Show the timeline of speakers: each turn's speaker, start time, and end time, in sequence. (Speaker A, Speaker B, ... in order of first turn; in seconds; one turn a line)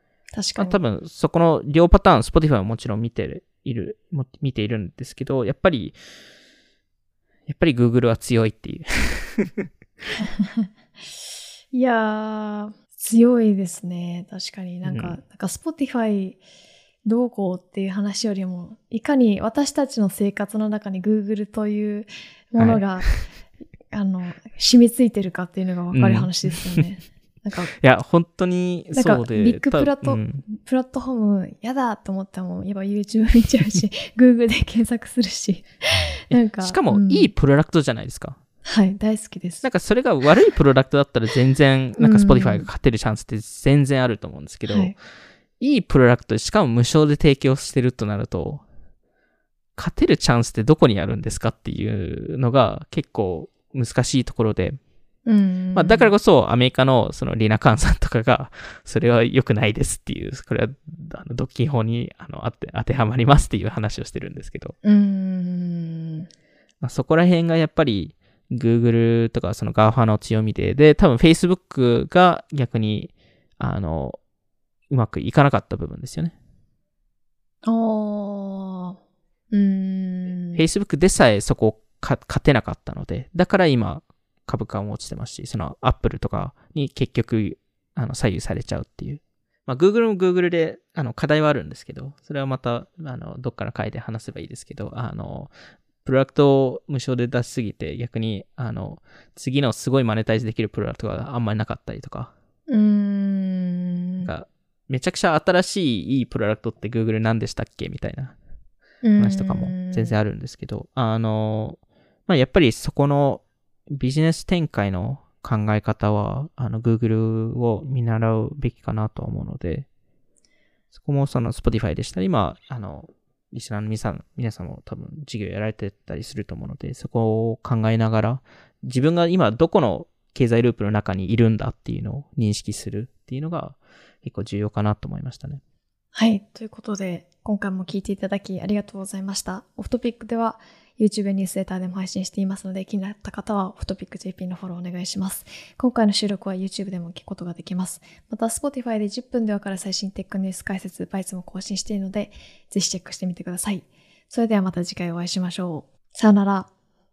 Speaker A: 0.3-0.8
Speaker B: 0.6-6.0
Speaker B: 7.5-9.7
Speaker A: 10.2-10.7
Speaker A: 11.7-16.4
Speaker B: 14.8-15.2
Speaker A: 17.1-23.2
Speaker B: 22.6-23.2
Speaker A: 23.9-27.7
Speaker B: 25.9-26.8
Speaker B: 27.8-30.4
Speaker A: 28.9-37.3
Speaker B: 36.3-38.4
Speaker A: 38.6-39.6
Speaker B: 39.6-44.9
Speaker A: 42.0-42.7
Speaker A: 44.7-45.0
Speaker B: 45.6-48.6
Speaker B: 49.8-54.8
Speaker A: 55.3-56.1
Speaker B: 55.7-64.8
Speaker A: 64.8-66.3
Speaker B: 66.8-74.2
Speaker B: 74.9-76.3
Speaker A: 77.6-79.0
Speaker A: 79.5-80.6
Speaker B: 80.5-95.5
Speaker B: 96.0-102.3
Speaker A: 102.7-104.3
Speaker B: 104.2-108.3
Speaker A: 109.0-110.2
Speaker B: 109.2-119.9
Speaker B: 120.9-135.6
Speaker A: 136.1-156.7